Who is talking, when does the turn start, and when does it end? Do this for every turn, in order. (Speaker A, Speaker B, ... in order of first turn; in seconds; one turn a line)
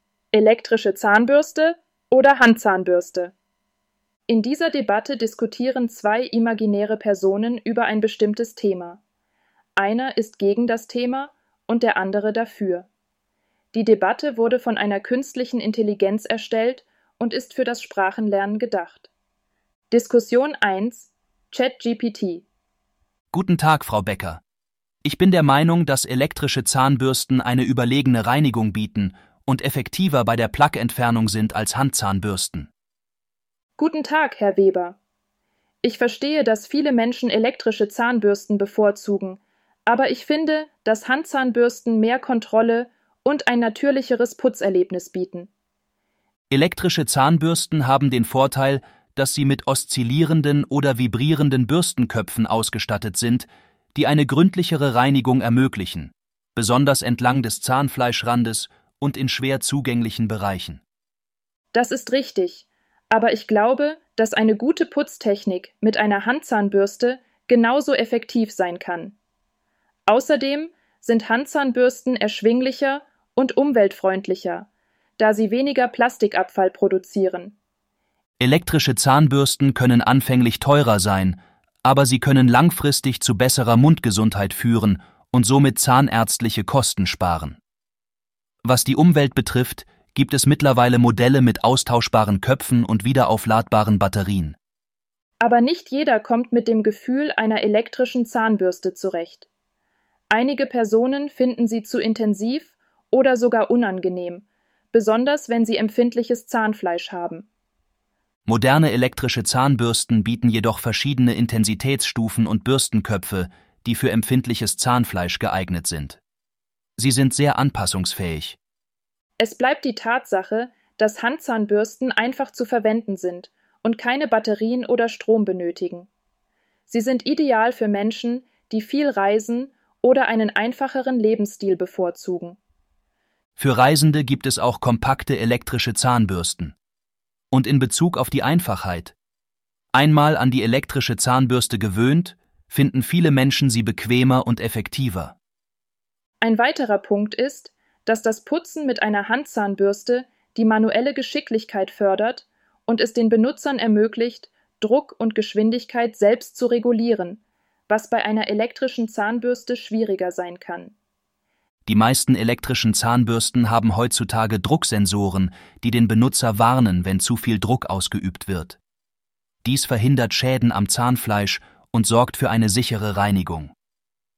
Speaker A: 0.3-3.3
Speaker A: 4.3-9.0
Speaker A: 9.8-12.9
Speaker A: 13.7-19.1
Speaker A: 19.9-22.4
Speaker B: 23.3-24.4
Speaker B: 25.0-32.7
Speaker A: 33.8-35.0
Speaker A: 35.8-45.5
Speaker B: 46.5-60.8
Speaker A: 61.7-69.2
Speaker A: 70.1-77.5
Speaker B: 78.4-87.6
Speaker B: 88.6-94.6
Speaker A: 95.4-99.5
Speaker A: 100.3-107.5
Speaker B: 108.5-116.2
Speaker B: 117.0-118.6
Speaker A: 119.4-126.1
Speaker A: 126.9-132.6
Speaker B: 133.6-136.7
Speaker B: 137.5-139.1
Speaker B: 139.9-145.3
Speaker A: 146.4-160.9
Speaker B: 161.9-168.8
Speaker B: 169.6-173.7